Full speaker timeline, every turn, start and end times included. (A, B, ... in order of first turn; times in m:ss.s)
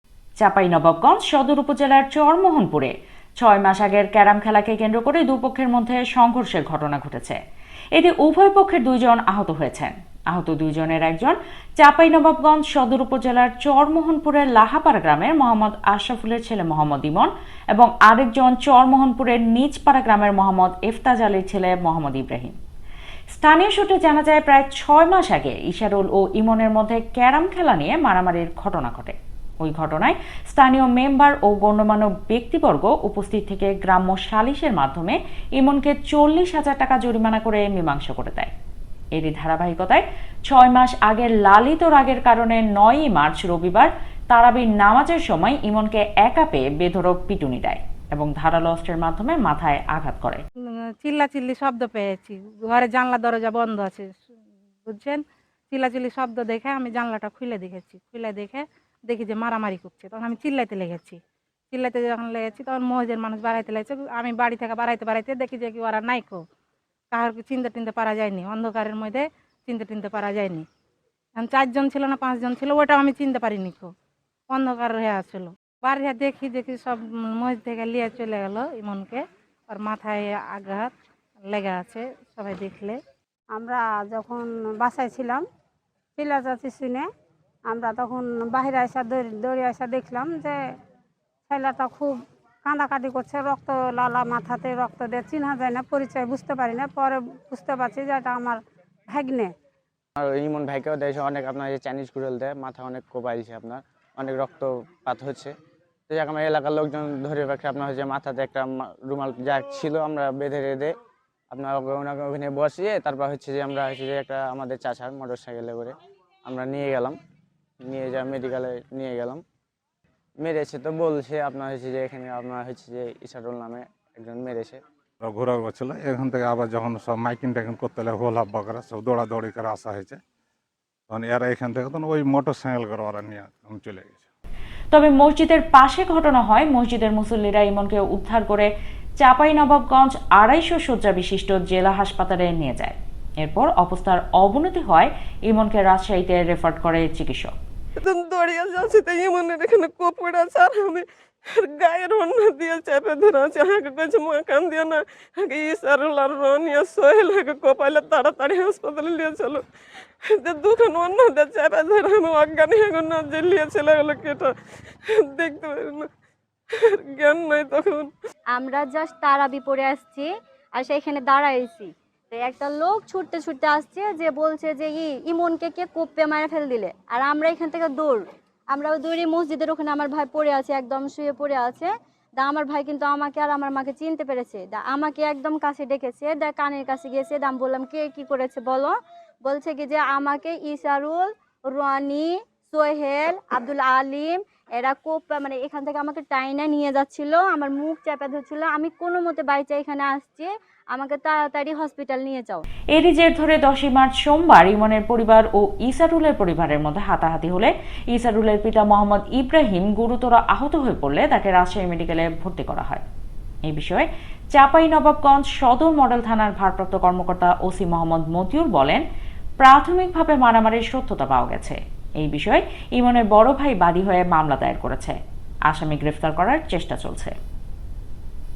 0:00.4-0:07.4 A
0:07.9-0:22.6 A
0:23.3-0:38.5 A
0:39.1-0:50.4 A
0:51.0-0:54.2 B
0:54.8-1:01.2 B
1:01.7-1:06.4 B
1:07.1-1:10.6 B
1:11.4-1:13.9 B
1:14.5-1:20.9 B
1:21.4-1:23.0 B
1:23.5-1:25.4 C
1:26.2-1:27.0 C
1:27.7-1:30.5 C
1:31.5-1:38.6 C
1:39.1-1:39.5 C
1:40.2-1:45.5 D
1:46.1-1:50.9 D
1:51.5-1:55.9 D
1:56.4-1:57.2 D
1:57.8-1:59.4 D
2:00.4-2:04.8 D
2:05.2-2:10.2 E
2:11.1-2:14.3 E
2:14.9-2:18.7 A
2:19.2-2:27.5 A
2:28.0-2:39.6 F
2:40.3-2:44.5 F
2:45.2-2:46.1 F
2:46.9-2:48.1 F
2:48.5-3:22.6 G
3:22.9-3:33.0 A
3:33.6-3:39.0 A
3:39.6-3:45.2 A
3:45.7-3:47.3 A